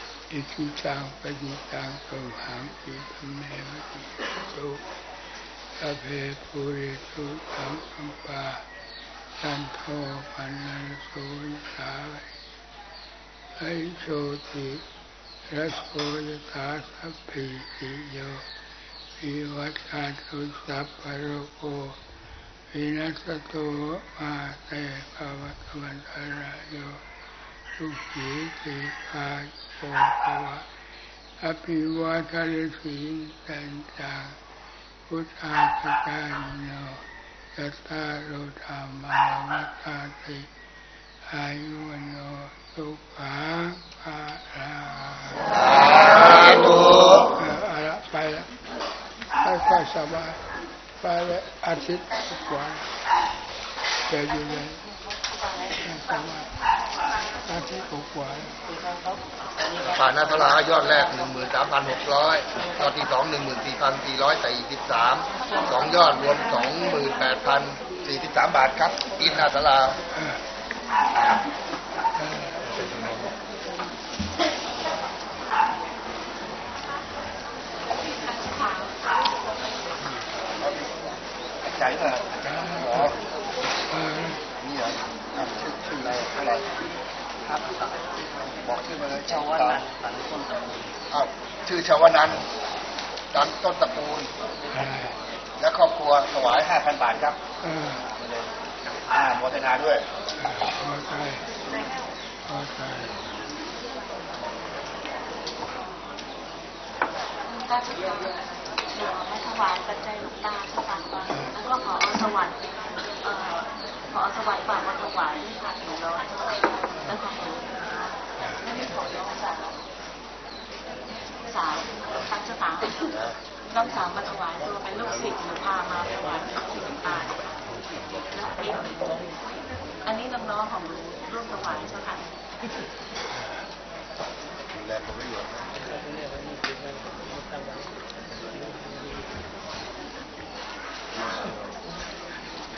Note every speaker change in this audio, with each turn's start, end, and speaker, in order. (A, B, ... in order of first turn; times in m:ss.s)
0:00.3-0:04.8 A
0:05.8-0:08.7 A
0:09.4-0:12.3 A
0:13.6-0:14.9 A
0:15.5-0:18.5 A
0:19.2-0:22.0 A
0:22.7-0:27.0 A
0:27.8-0:30.7 A
0:31.4-0:34.4 A
0:35.1-0:40.5 A
0:41.3-0:45.6 A
0:45.6-0:47.3 B
0:47.4-0:48.5 A
0:49.4-0:50.4 A
0:51.0-0:52.9 A
0:54.1-0:54.8 A
0:55.8-0:56.5 A
0:57.4-0:58.6 A
0:59.8-1:10.0 B
1:12.2-1:12.5 A
1:18.3-1:19.0 C
1:20.6-1:21.1 B
1:21.6-1:23.2 B
1:22.5-1:23.1 A
1:23.9-1:24.4 A
1:24.6-1:26.8 B
1:27.5-1:30.1 B
1:31.1-1:32.5 B
1:33.3-1:34.3 B
1:34.7-1:35.2 A
1:35.6-1:37.4 B
1:37.6-1:38.0 A
1:39.1-1:40.1 B
1:40.4-1:41.4 A
1:42.4-1:43.2 A
1:47.5-1:57.8 C
1:58.7-1:59.8 C
2:01.5-2:09.4 C
2:10.0-2:12.3 C
2:14.7-2:15.7 B